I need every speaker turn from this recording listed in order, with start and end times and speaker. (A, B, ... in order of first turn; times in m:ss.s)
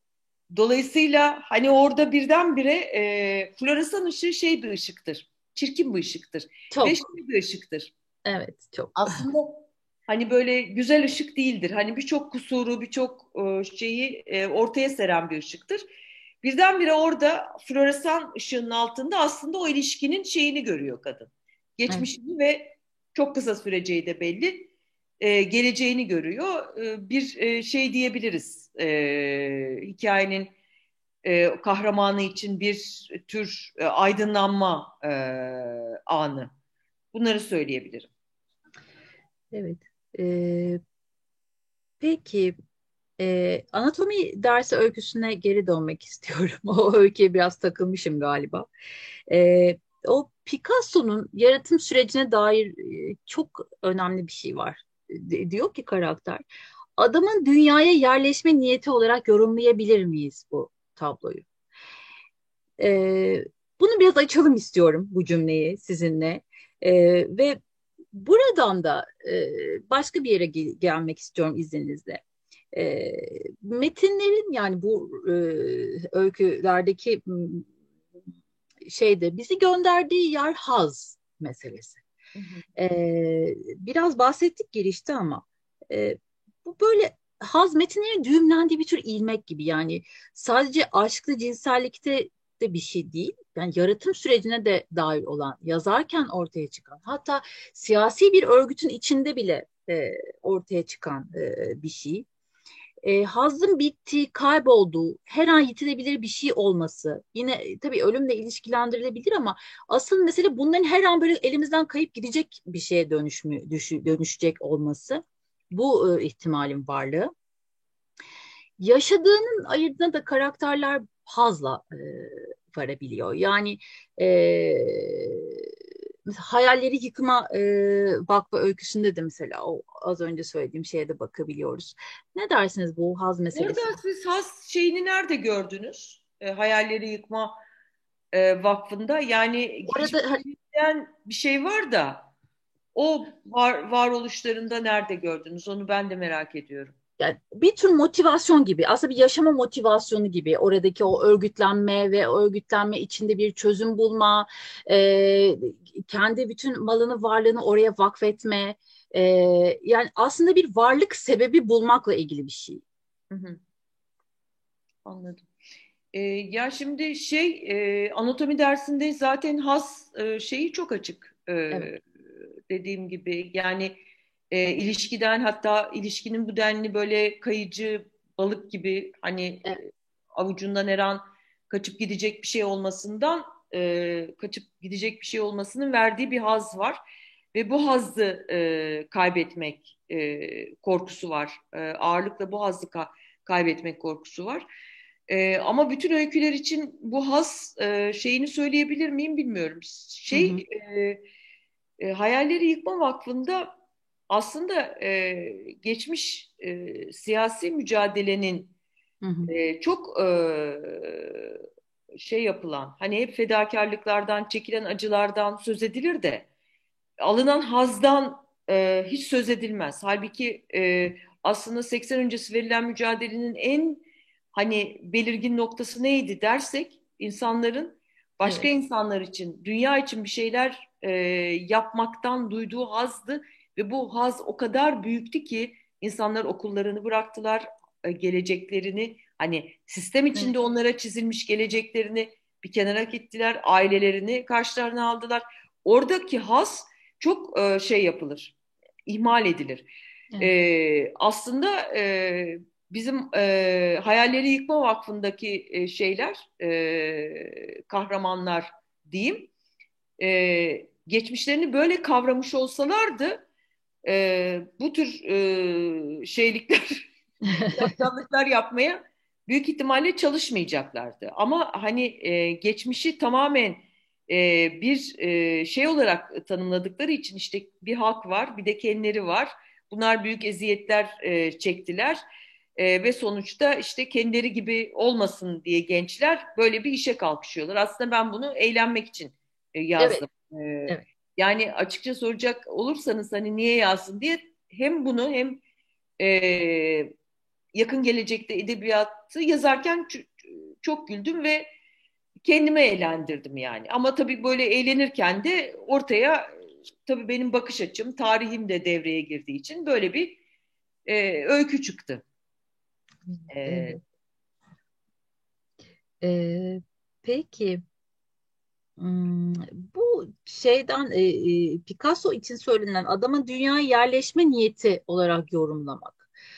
0:00.5-0:07.9 A
0:06.7-0:07.0 B
0:08.2-0:09.2 B
0:09.0-0:15.8 A
0:16.4-0:24.7 A
0:25.2-0:30.5 A
0:31.2-0:36.5 A
0:37.1-0:38.1 A
0:39.5-0:40.8 B
0:42.0-0:42.6 B
0:43.2-0:48.7 B
0:49.3-0:56.4 B
0:57.0-1:01.4 B
1:02.8-1:07.6 B
1:08.1-1:12.2 B
1:12.7-1:17.7 B
1:18.8-1:22.0 B
1:22.4-1:22.6 A
1:22.8-1:42.2 B
1:43.0-1:57.3 B
1:58.8-2:05.7 B
2:06.3-2:14.0 B
2:13.5-2:17.5 A
2:18.3-2:22.3 A
2:19.9-2:20.4 B
2:22.9-2:27.0 A
2:27.2-2:42.8 B
2:43.3-2:43.6 A
2:45.0-2:45.4 A
2:46.1-2:52.0 A
2:52.7-2:54.0 A
2:54.5-3:07.0 A
3:07.5-3:14.6 A
3:15.3-3:21.2 A
3:20.3-3:20.6 B
3:22.0-3:23.7 A
3:24.3-3:28.7 A
3:29.2-3:29.5 B
3:29.5-3:31.6 A
3:32.1-3:36.4 A
3:37.2-4:08.5 A
3:48.4-3:48.7 B
4:09.1-4:09.9 A
4:10.4-4:19.5 A
4:20.2-4:23.4 A
4:24.0-4:27.1 A
4:27.5-4:27.9 B
4:27.6-4:42.2 A
4:42.8-4:55.6 A
4:50.0-4:50.2 B
4:56.2-4:57.1 A
4:57.7-5:01.7 A
5:02.4-5:10.4 A
5:11.0-5:12.2 A
5:13.3-5:14.0 B
5:13.5-5:14.0 A
5:16.2-5:17.8 B
5:19.0-5:26.3 B